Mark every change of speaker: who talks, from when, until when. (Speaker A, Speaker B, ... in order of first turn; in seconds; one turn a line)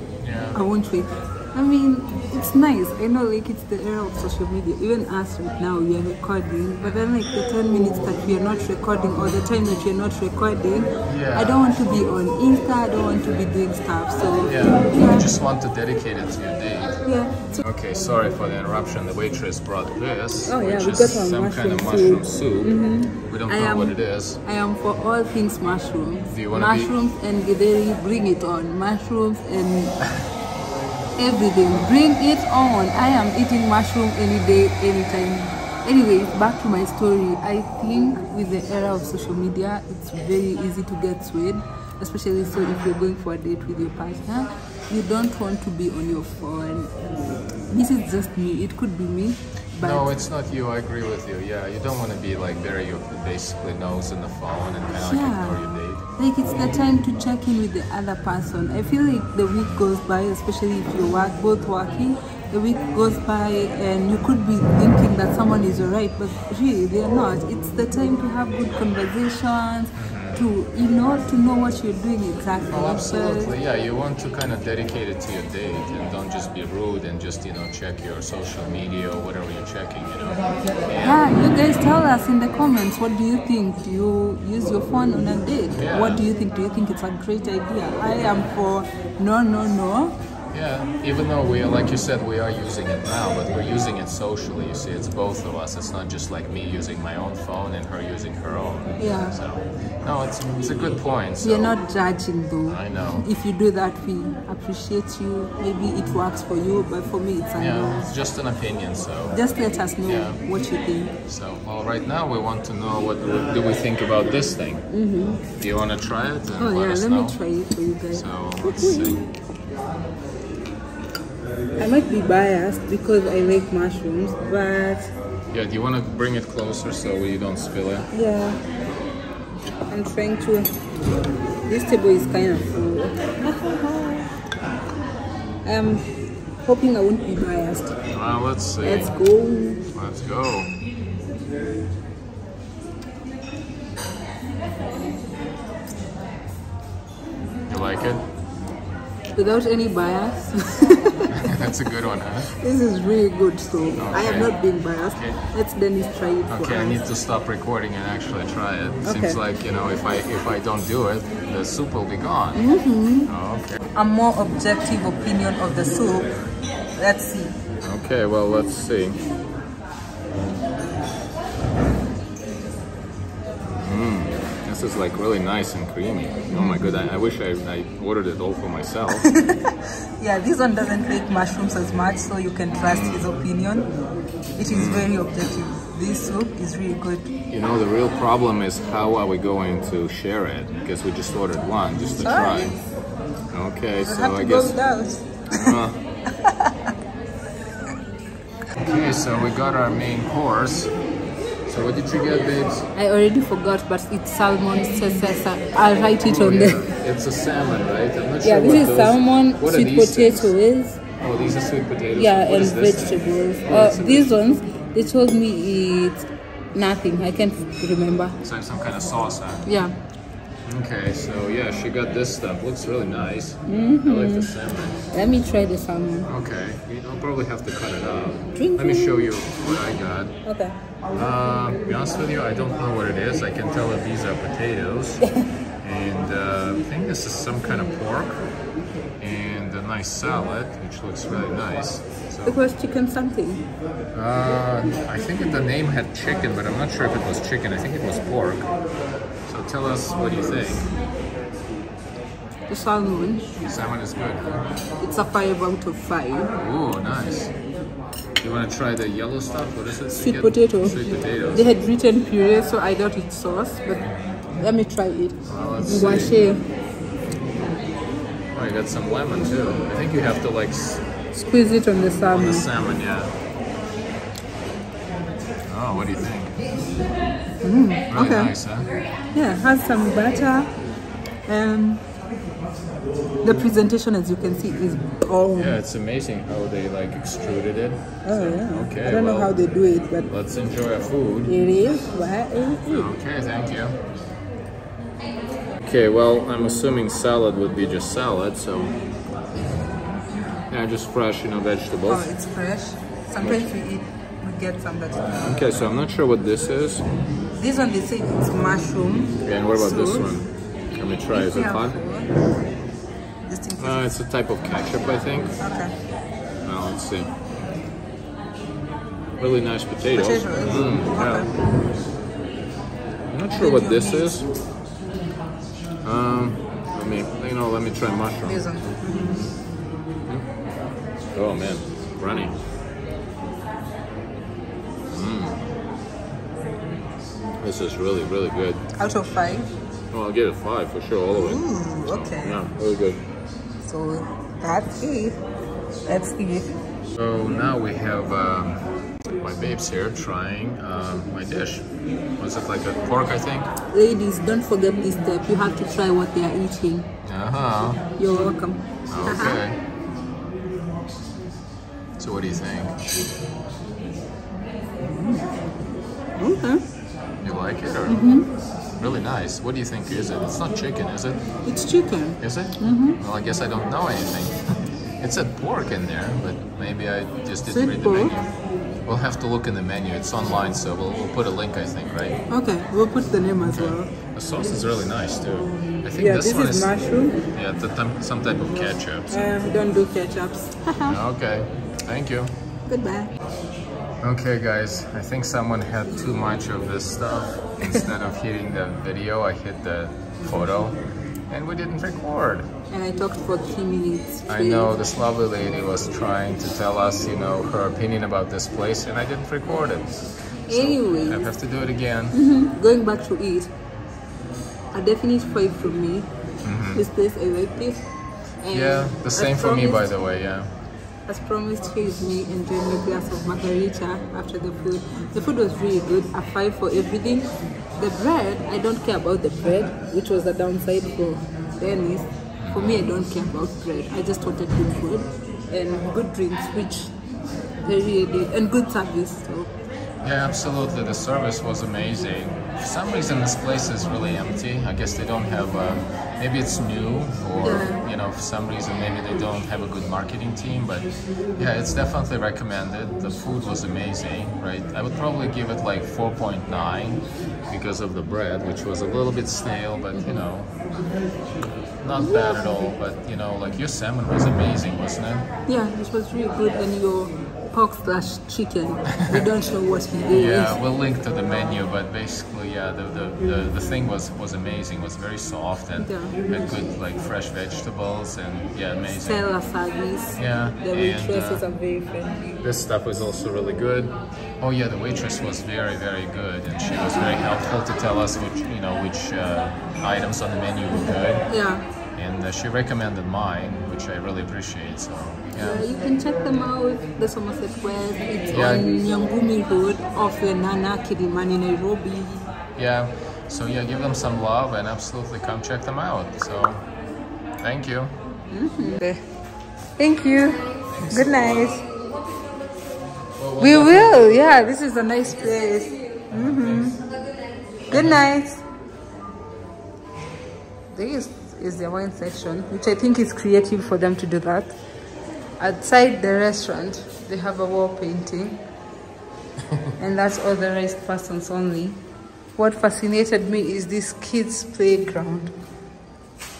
Speaker A: 0.2-0.6
Speaker B: 0.5-15.3
Speaker A: 6.8-7.1
Speaker A: 11.1-11.7
Speaker A: 14.4-17.0
Speaker B: 17.0-17.6
Speaker A: 17.6-22.8
Speaker B: 20.4-30.0
Speaker A: 23.3-24.4
Speaker A: 26.3-26.9
Speaker B: 31.2-47.1
Speaker B: 47.7-50.1
Speaker A: 49.8-56.0
Speaker B: 55.0-73.5
Speaker A: 70.0-70.4
Speaker A: 72.7-81.3
Speaker B: 81.0-90.2
Speaker A: 85.8-86.2
Speaker A: 90.5-101.8
Speaker B: 99.0-99.3
Speaker B: 101.4-108.1
Speaker A: 102.7-103.3
Speaker A: 107.6-109.4
Speaker B: 109.3-111.1
Speaker A: 110.0-110.4
Speaker A: 111.3-114.9
Speaker B: 114.9-115.4
Speaker A: 115.5-117.4
Speaker B: 116.5-119.3
Speaker A: 118.1-119.2
Speaker B: 121.8-125.1
Speaker A: 125.5-128.1
Speaker B: 128.1-128.6
Speaker B: 129.9-130.9
Speaker B: 131.7-134.3
Speaker B: 135.7-136.1
Speaker B: 136.6-138.0
Speaker A: 138.1-139.1
Speaker B: 138.8-139.8
Speaker A: 139.9-140.7
Speaker A: 147.7-148.3
Speaker B: 149.3-151.4
Speaker A: 151.3-152.5
Speaker B: 152.6-157.0
Speaker A: 153.9-155.4
Speaker A: 156.5-162.7
Speaker B: 159.0-159.4
Speaker B: 162.6-163.3
Speaker A: 163.3-163.8
Speaker B: 163.9-166.4
Speaker B: 166.9-167.6
Speaker A: 167.8-169.2
Speaker A: 173.6-179.3
Speaker B: 176.5-177.0
Speaker B: 179.2-183.9
Speaker A: 182.8-183.3
Speaker B: 184.6-187.3
Speaker A: 184.7-185.1
Speaker A: 187.5-192.8
Speaker B: 192.2-192.8
Speaker A: 193.5-194.8
Speaker B: 194.0-195.8
Speaker A: 195.5-196.0
Speaker B: 196.4-196.7
Speaker A: 198.8-200.9
Speaker A: 201.7-202.9
Speaker B: 202.9-206.9
Speaker A: 206.2-210.5
Speaker B: 208.4-211.0
Speaker A: 211.2-214.3
Speaker B: 212.2-218.4
Speaker A: 218.4-219.7
Speaker B: 219.7-219.9
Speaker A: 220.7-225.0
Speaker B: 223.7-224.5
Speaker B: 225.1-226.3
Speaker A: 226.3-230.3
Speaker B: 228.5-229.1
Speaker B: 230.4-230.8
Speaker A: 231.1-235.2
Speaker A: 235.8-238.4
Speaker B: 237.7-238.0
Speaker A: 239.2-242.6
Speaker B: 242.5-243.7
Speaker A: 244.1-248.7
Speaker A: 249.5-250.9
Speaker B: 252.7-253.6
Speaker A: 253.6-254.6
Speaker B: 255.0-256.5
Speaker A: 256.6-257.5
Speaker A: 258.4-261.7
Speaker B: 260.1-261.0
Speaker B: 261.5-264.1
Speaker B: 264.6-266.6
Speaker A: 265.5-266.4
Speaker A: 268.5-271.1
Speaker B: 271.4-272.7
Speaker A: 272.3-273.4
Speaker A: 275.7-276.6
Speaker B: 277.6-278.5
Speaker A: 278.1-278.9
Speaker B: 279.3-280.7
Speaker B: 281.5-282.1
Speaker B: 283.4-285.8
Speaker A: 285.5-289.6
Speaker B: 288.2-290.3
Speaker A: 290.3-291.5
Speaker B: 291.5-293.1
Speaker A: 292.9-294.0
Speaker A: 295.8-299.0
Speaker A: 300.7-302.3
Speaker B: 302.1-305.6
Speaker A: 303.4-303.7
Speaker A: 305.4-307.1
Speaker B: 307.6-310.3
Speaker A: 309.4-312.0
Speaker B: 311.3-312.3
Speaker B: 313.4-314.1
Speaker A: 313.8-315.6
Speaker B: 315.6-315.9
Speaker A: 316.6-317.3
Speaker A: 319.4-321.6
Speaker B: 320.1-321.6
Speaker A: 323.3-324.5
Speaker B: 323.5-324.5
Speaker A: 326.0-329.5
Speaker B: 328.4-329.4
Speaker A: 331.3-332.6
Speaker A: 335.1-335.7
Speaker A: 337.6-338.9
Speaker B: 339.0-339.7
Speaker A: 340.1-343.2
Speaker B: 341.3-342.6
Speaker B: 343.9-345.4
Speaker B: 346.1-346.7
Speaker A: 347.1-348.9
Speaker A: 349.4-353.7
Speaker B: 353.9-357.1
Speaker A: 357.2-358.5
Speaker B: 358.2-359.6
Speaker A: 359.1-359.8
Speaker A: 362.2-363.0
Speaker B: 365.1-365.6
Speaker B: 366.4-366.8
Speaker A: 367.4-368.2
Speaker B: 368.1-368.5
Speaker A: 369.0-371.4
Speaker B: 371.7-373.2
Speaker A: 372.4-374.6
Speaker A: 375.2-378.5
Speaker B: 377.7-378.3
Speaker A: 379.1-382.4
Speaker B: 382.5-384.1
Speaker A: 383.6-386.9
Speaker B: 386.2-387.4
Speaker A: 387.5-389.4
Speaker B: 389.3-391.2
Speaker A: 391.0-392.6
Speaker B: 392.9-393.3
Speaker A: 394.2-401.0
Speaker A: 401.5-402.7
Speaker B: 402.9-404.9
Speaker A: 404.5-412.4
Speaker B: 410.7-411.5
Speaker B: 412.3-413.7
Speaker B: 414.9-416.3
Speaker A: 416.6-417.0
Speaker B: 416.9-418.0
Speaker B: 418.6-420.1
Speaker A: 418.7-420.7
Speaker B: 421.3-437.1
Speaker A: 432.6-433.1
Speaker B: 437.8-439.7
Speaker A: 440.2-460.7
Speaker B: 447.6-448.0
Speaker B: 460.1-460.4
Speaker A: 462.0-465.5
Speaker B: 462.2-462.6
Speaker B: 465.7-470.8
Speaker A: 470.3-479.5
Speaker B: 476.0-476.8
Speaker B: 479.2-482.6
Speaker A: 480.4-481.6
Speaker A: 482.6-491.5
Speaker B: 491.5-491.9
Speaker A: 492.1-495.9
Speaker B: 495.6-502.5
Speaker A: 498.5-498.9
Speaker A: 502.8-506.9
Speaker A: 507.6-508.2
Speaker B: 508.5-509.2
Speaker B: 510.0-511.9
Speaker A: 511.0-511.4
Speaker A: 513.4-514.8
Speaker B: 513.6-517.0
Speaker A: 516.3-517.0
Speaker B: 517.9-518.6
Speaker A: 517.9-518.2
Speaker B: 520.9-524.8
Speaker B: 525.6-528.6
Speaker B: 530.0-532.0
Speaker B: 532.6-535.5